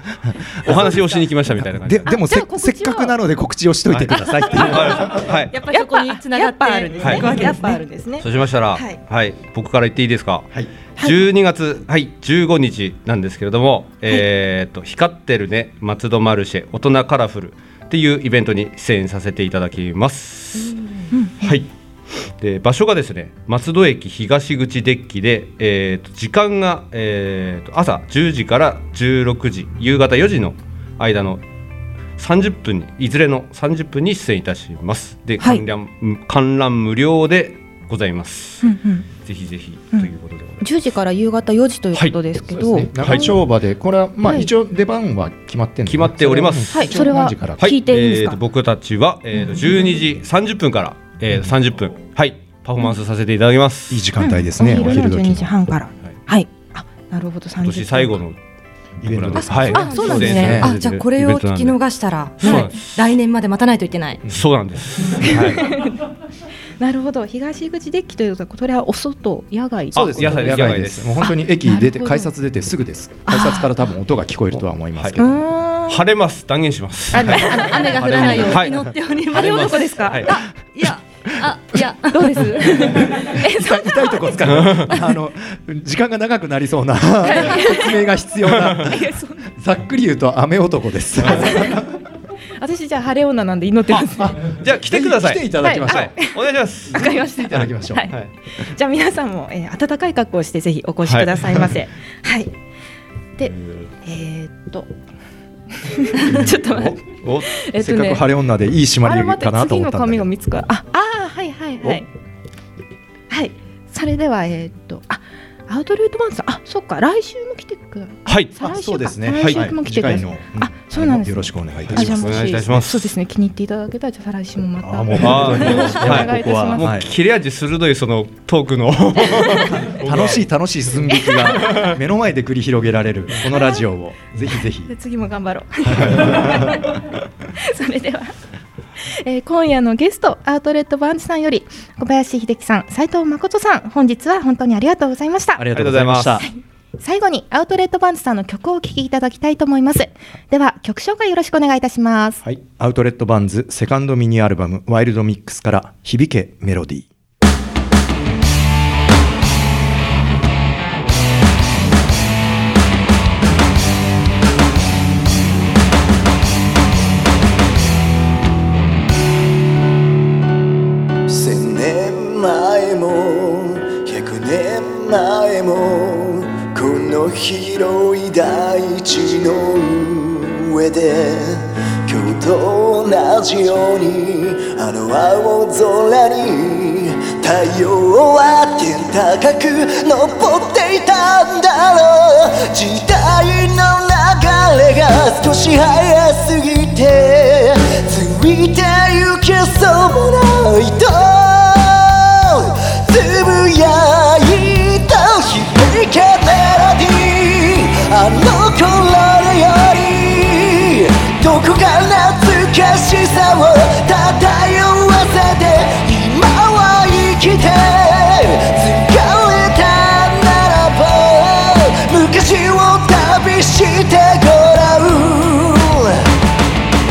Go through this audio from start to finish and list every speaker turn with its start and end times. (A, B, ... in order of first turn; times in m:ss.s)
0:00.2-0:05.3 A
0:00.6-0:02.1 B
0:00.7-0:01.1 C
0:02.0-0:03.1 C
0:03.9-0:05.5 B
0:04.6-0:09.0 C
0:05.5-0:07.8 D
0:07.0-0:07.3 B
0:08.2-0:21.7 B
0:11.0-0:11.2 C
0:21.1-0:21.5 C
0:22.4-0:31.4 B
0:32.2-0:40.6 B
0:35.4-0:35.6 C
0:38.6-0:39.0 C
0:39.9-0:43.3 C
0:41.9-0:42.2 B
0:42.5-0:47.7 A
0:43.0-0:43.4 B
0:44.2-0:44.5 C
0:45.8-0:47.0 B
0:46.7-0:48.4 C
0:47.6-0:54.1 B
0:49.5-0:49.8 C
0:53.9-0:55.6 A
0:54.2-0:58.2 C
0:57.6-0:58.4 B
0:59.0-1:00.8 A
0:59.0-1:01.8 B
0:59.4-1:00.7 C
0:59.7-1:04.2 D
1:02.4-1:03.1 B
1:02.4-1:02.7 C
1:04.2-1:04.6 A
1:04.2-1:05.8 B
1:05.2-1:05.9 C
1:05.3-1:05.6 A
1:06.8-1:10.6 C
1:09.9-1:11.3 B
1:09.9-1:15.4 A
1:11.2-1:12.3 C
1:13.3-1:13.7 C
1:14.5-1:15.2 B
1:15.2-1:16.0 C
1:15.9-1:20.4 B
1:17.1-1:18.7 C
1:17.3-1:23.1 D
1:19.3-1:20.4 C
1:22.1-1:25.1 C
1:23.2-1:29.0 A
1:24.4-1:25.0 B
1:27.2-1:28.1 C
1:28.5-1:28.8 B
1:28.7-1:29.4 C
1:29.6-1:32.0 A
1:31.2-1:31.7 B
1:31.3-1:31.7 C
1:32.6-1:34.3 C
1:33.9-1:38.3 B
1:34.2-1:36.3 A
1:35.6-1:36.3 C
1:36.9-1:38.1 A
1:36.9-1:42.5 C
1:41.0-1:41.4 B
1:43.4-1:44.9 C
1:45.9-1:47.0 C
1:46.3-1:47.0 A
1:47.2-1:47.6 B
1:47.6-1:48.2 C
1:47.6-1:50.3 A
1:49.0-1:52.0 C
1:53.3-2:06.9 C
1:58.2-1:58.6 B
1:58.6-2:02.8 A
1:59.3-1:59.7 B
2:01.8-2:03.1 B
2:04.8-2:07.1 A
2:05.2-2:10.5 B
2:09.3-2:09.8 C
2:09.3-2:14.9 A
2:11.2-2:12.0 B
2:13.5-2:13.8 C
2:14.8-2:16.9 C
2:15.9-2:17.0 A
2:17.6-2:18.3 C
2:19.2-2:25.6 C
2:25.6-2:26.5 A
2:25.7-2:26.4 B
2:26.4-2:32.4 C
2:32.4-2:37.1 A
2:51.3-3:46.3 E